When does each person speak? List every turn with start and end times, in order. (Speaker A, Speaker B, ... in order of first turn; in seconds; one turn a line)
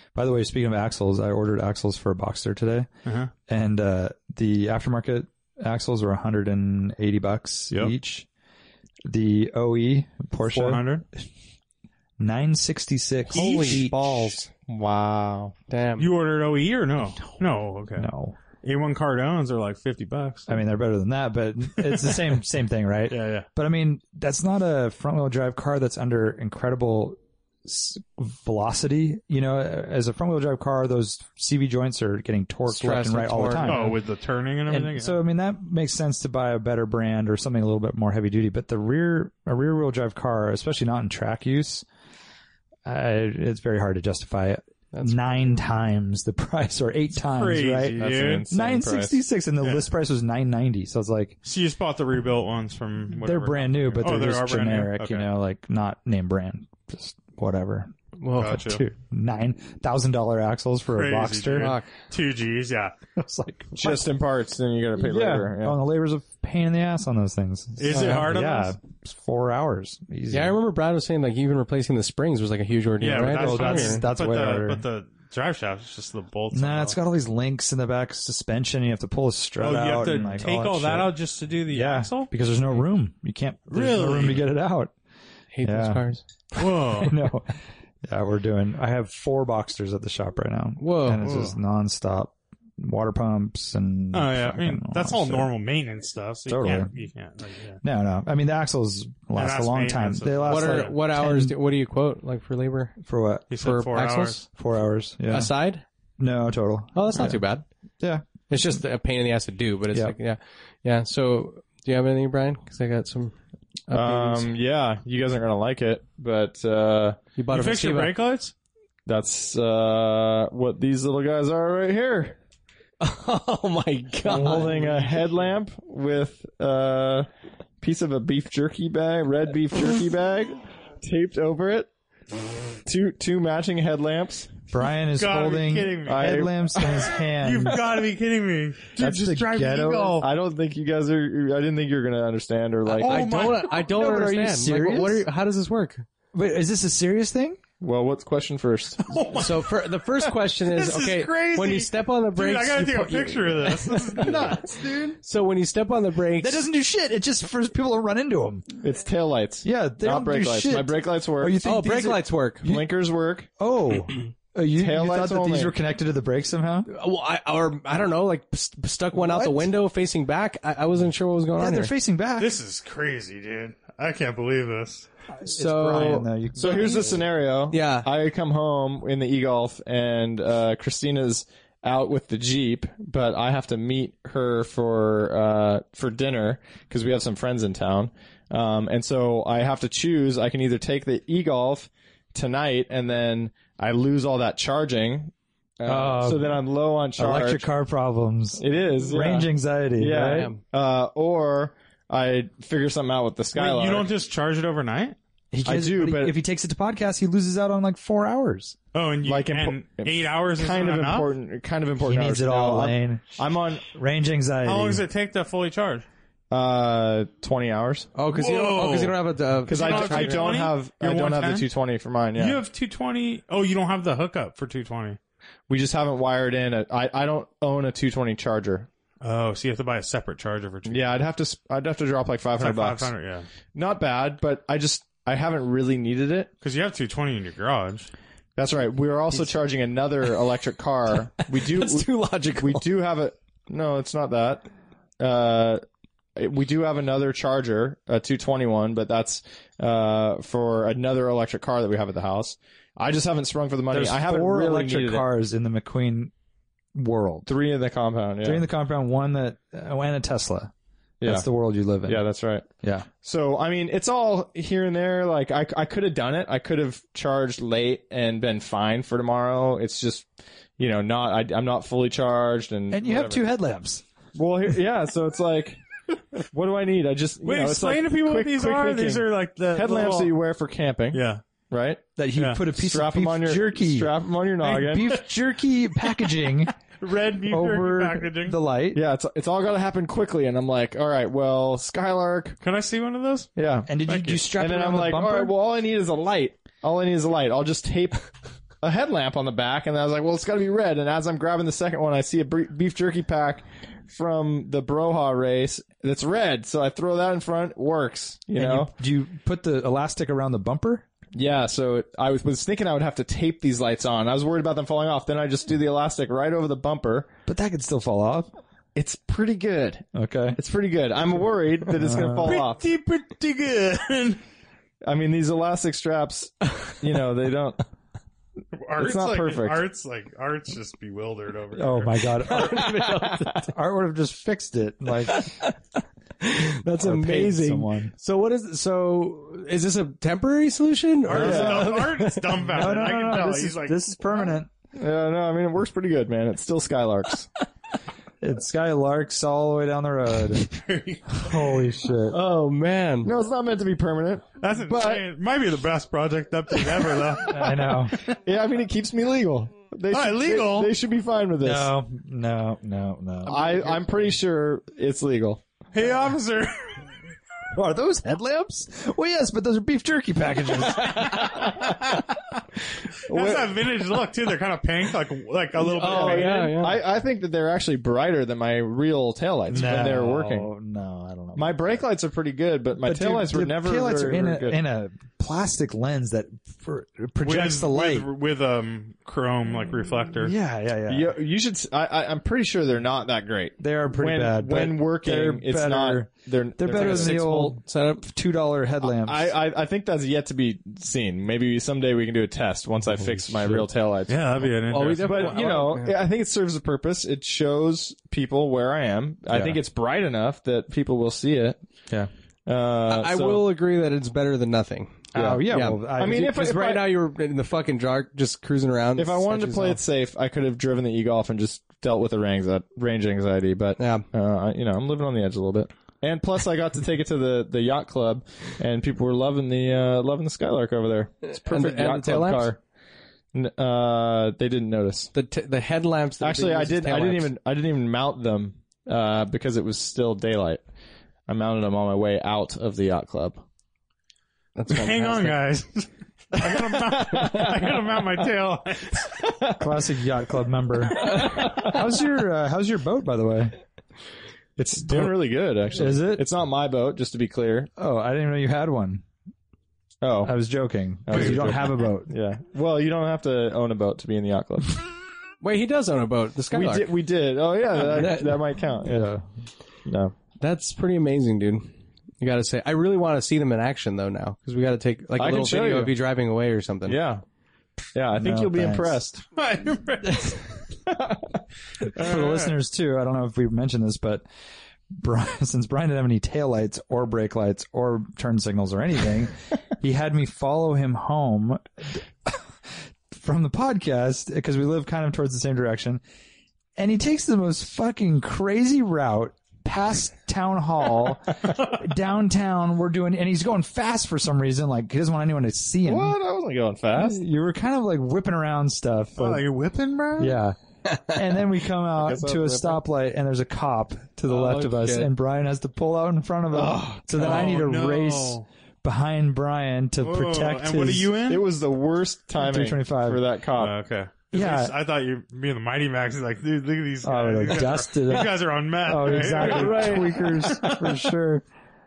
Speaker A: 0.1-2.9
Speaker B: 3.0-3.3
Speaker A: 3.5-8.3
Speaker A: 9.1-11.0
Speaker B: 10.5-11.0
Speaker A: 12.2-14.0
Speaker C: 13.3-14.4
Speaker B: 13.3-13.9
Speaker D: 13.6-15.5
Speaker C: 15.7-16.1
Speaker B: 16.0-18.1
Speaker A: 18.0-18.4
Speaker B: 18.6-20.5
Speaker A: 20.5-33.9
Speaker B: 23.1-23.4
Speaker C: 32.7-33.9
Speaker B: 33.6-35.2
Speaker A: 34.7-41.8
Speaker A: 42.8-51.4
Speaker C: 44.9-45.3
Speaker B: 47.2-48.5
Speaker D: 48.0-49.2
Speaker B: 49.6-49.9
Speaker B: 51.4-55.3
Speaker A: 53.1-61.7
Speaker C: 58.2-58.6
Speaker B: 58.3-58.8
Speaker B: 60.9-62.9
Speaker C: 61.5-61.9
Speaker A: 63.2-64.1
Speaker D: 63.8-65.8
Speaker A: 64.9-70.6
Speaker B: 67.8-68.7
Speaker C: 67.9-68.3
Speaker C: 70.3-74.0
Speaker B: 73.0-77.0
Speaker A: 73.2-74.8
Speaker A: 76.5-81.2
Speaker B: 79.6-82.3
Speaker A: 81.7-84.9
Speaker B: 83.7-84.5
Speaker C: 85.5-86.2
Speaker A: 85.6-86.0
Speaker B: 86.5-87.2
Speaker A: 86.6-87.5
Speaker A: 88.0-95.5
Speaker C: 90.8-91.2
Speaker B: 91.2-91.5
Speaker B: 94.1-97.8
Speaker A: 96.5-96.9
Speaker A: 97.8-101.5
Speaker B: 99.3-101.0
Speaker C: 100.5-102.9
Speaker A: 103.0-103.5
Speaker B: 103.5-104.4
Speaker C: 103.6-104.4
Speaker A: 104.5-105.5
Speaker C: 105.3-105.8
Speaker A: 106.2-107.4
Speaker C: 106.9-107.6
Speaker C: 108.5-113.3
Speaker C: 113.9-114.5
Speaker D: 113.9-117.2
Speaker C: 117.3-118.2
Speaker B: 117.5-118.5
Speaker D: 119.0-122.4
Speaker C: 123.0-124.7
Speaker D: 124.3-127.3
Speaker A: 124.3-125.0
Speaker D: 127.8-131.9
Speaker D: 132.8-134.6
Speaker A: 134.7-137.8
Speaker B: 135.2-140.3
Speaker D: 136.1-136.5
Speaker A: 139.0-140.2
Speaker D: 140.0-143.2
Speaker C: 142.9-146.0
Speaker B: 143.0-143.7
Speaker A: 143.1-145.2
Speaker A: 146.3-147.6
Speaker D: 147.8-149.1
Speaker B: 149.0-155.1
Speaker C: 149.3-156.6
Speaker A: 154.2-154.6
Speaker A: 156.4-158.6
Speaker D: 158.8-161.6
Speaker A: 159.6-162.9
Speaker C: 161.6-162.6
Speaker D: 162.6-163.5
Speaker A: 163.6-166.9
Speaker D: 164.8-165.7
Speaker C: 166.9-171.9
Speaker A: 169.1-169.7
Speaker A: 171.6-172.6
Speaker B: 172.4-175.1
Speaker A: 175.3-177.2
Speaker C: 175.5-177.0
Speaker D: 176.6-197.7
Speaker C: 177.7-178.1
Speaker A: 195.8-196.6
Speaker A: 197.2-200.5
Speaker D: 198.6-204.1
Speaker C: 200.2-200.6
Speaker B: 203.5-205.2
Speaker A: 205.5-208.8
Speaker D: 205.6-206.3
Speaker B: 208.9-211.3
Speaker D: 209.2-213.8
Speaker A: 212.0-215.0
Speaker B: 214.6-216.1
Speaker D: 216.5-218.1
Speaker C: 218.1-220.6
Speaker B: 218.3-219.2
Speaker D: 219.7-222.6
Speaker B: 219.7-221.7
Speaker B: 222.3-225.2
Speaker D: 225.7-228.9
Speaker B: 229.2-231.2
Speaker D: 230.9-233.1
Speaker B: 232.6-233.5
Speaker D: 233.7-236.5
Speaker B: 236.6-238.1
Speaker D: 238.6-244.7
Speaker C: 241.4-242.8
Speaker D: 245.2-245.8
Speaker D: 246.3-255.3
Speaker A: 253.9-256.3
Speaker A: 256.9-257.5
Speaker D: 257.4-258.6
Speaker A: 258.4-260.7
Speaker D: 261.2-261.5
Speaker A: 261.2-262.2
Speaker D: 262.0-262.7
Speaker A: 262.8-263.1
Speaker D: 263.2-270.3
Speaker D: 270.8-273.4
Speaker A: 272.9-274.0
Speaker D: 274.3-275.8
Speaker D: 276.4-282.0
Speaker B: 277.4-280.3
Speaker B: 281.1-281.4
Speaker A: 282.2-286.7
Speaker B: 282.4-282.6
Speaker D: 282.7-285.2
Speaker B: 287.0-288.6
Speaker A: 287.5-289.0
Speaker D: 288.9-292.6
Speaker B: 292.6-293.5
Speaker D: 293.6-293.9
Speaker A: 293.9-295.5
Speaker B: 294.0-294.4
Speaker D: 294.5-298.3
Speaker D: 298.8-308.9
Speaker A: 308.5-311.1
Speaker D: 311.3-317.3
Speaker A: 317.5-318.5
Speaker D: 318.9-322.9
Speaker A: 320.1-320.6
Speaker A: 322.0-322.6
Speaker B: 322.4-324.4
Speaker D: 325.0-327.8
Speaker B: 328.8-332.4
Speaker D: 329.0-329.8
Speaker A: 331.7-335.6
Speaker C: 332.4-333.7
Speaker C: 335.3-335.8
Speaker C: 336.4-342.5
Speaker A: 337.0-338.1
Speaker B: 341.2-344.5
Speaker A: 341.3-341.9
Speaker D: 341.3-342.0
Speaker A: 342.6-344.7
Speaker D: 344.9-347.5
Speaker A: 348.4-350.7
Speaker B: 350.7-351.6
Speaker A: 351.3-352.4
Speaker C: 352.3-353.3
Speaker D: 353.2-355.2
Speaker B: 354.6-358.0
Speaker A: 357.4-358.1
Speaker D: 358.2-361.9
Speaker B: 360.1-360.9
Speaker A: 361.6-364.0
Speaker D: 363.4-365.6
Speaker B: 365.9-367.0
Speaker A: 367.7-371.8
Speaker B: 370.9-372.2
Speaker D: 373.3-373.8
Speaker B: 373.3-376.7
Speaker C: 375.9-377.0
Speaker D: 376.0-380.7
Speaker A: 379.7-382.0
Speaker B: 379.7-380.1
Speaker D: 381.5-384.8
Speaker A: 383.0-388.3
Speaker B: 387.4-390.5
Speaker A: 390.4-391.3
Speaker D: 391.1-397.4
Speaker A: 393.8-399.5
Speaker C: 396.9-398.2
Speaker D: 399.0-404.4
Speaker B: 404.3-405.6
Speaker C: 404.9-406.2
Speaker D: 405.2-411.8
Speaker A: 409.5-409.8
Speaker D: 412.6-413.7
Speaker C: 413.1-420.0
Speaker A: 415.3-416.6
Speaker D: 415.3-415.6
Speaker D: 416.2-417.1
Speaker D: 419.1-432.8
Speaker C: 424.0-424.2
Speaker C: 431.4-432.7
Speaker D: 433.5-435.3
Speaker C: 435.3-437.5
Speaker D: 436.4-440.8
Speaker D: 441.5-443.6
Speaker C: 444.8-445.6
Speaker B: 444.9-449.4
Speaker D: 446.6-447.9
Speaker D: 449.4-449.8
Speaker A: 449.8-453.7
Speaker D: 454.8-457.9
Speaker A: 455.9-456.4
Speaker A: 458.0-459.2
Speaker D: 460.2-460.5
Speaker A: 460.4-462.3
Speaker D: 461.2-465.0
Speaker C: 465.6-467.1
Speaker D: 466.7-469.2
Speaker C: 467.9-468.6
Speaker A: 469.0-469.4
Speaker D: 470.1-470.3
Speaker C: 470.6-471.9
Speaker C: 472.4-477.2
Speaker D: 475.4-476.1
Speaker D: 477.1-477.4
Speaker D: 478.1-479.4
Speaker A: 478.4-479.2
Speaker B: 479.6-480.8
Speaker D: 481.1-481.5
Speaker A: 482.1-484.4
Speaker B: 482.1-482.7
Speaker A: 485.1-492.6
Speaker A: 493.3-496.2
Speaker A: 497.0-506.4
Speaker D: 506.1-507.4
Speaker A: 507.1-509.6
Speaker B: 509.4-510.6
Speaker A: 510.4-521.3
Speaker D: 512.2-513.0
Speaker C: 514.5-515.3
Speaker D: 516.8-517.6
Speaker B: 517.3-518.6
Speaker B: 520.2-521.6
Speaker D: 521.5-523.9
Speaker A: 522.6-523.4
Speaker B: 523.8-530.4
Speaker A: 524.5-524.9
Speaker A: 527.2-531.6
Speaker C: 529.5-531.0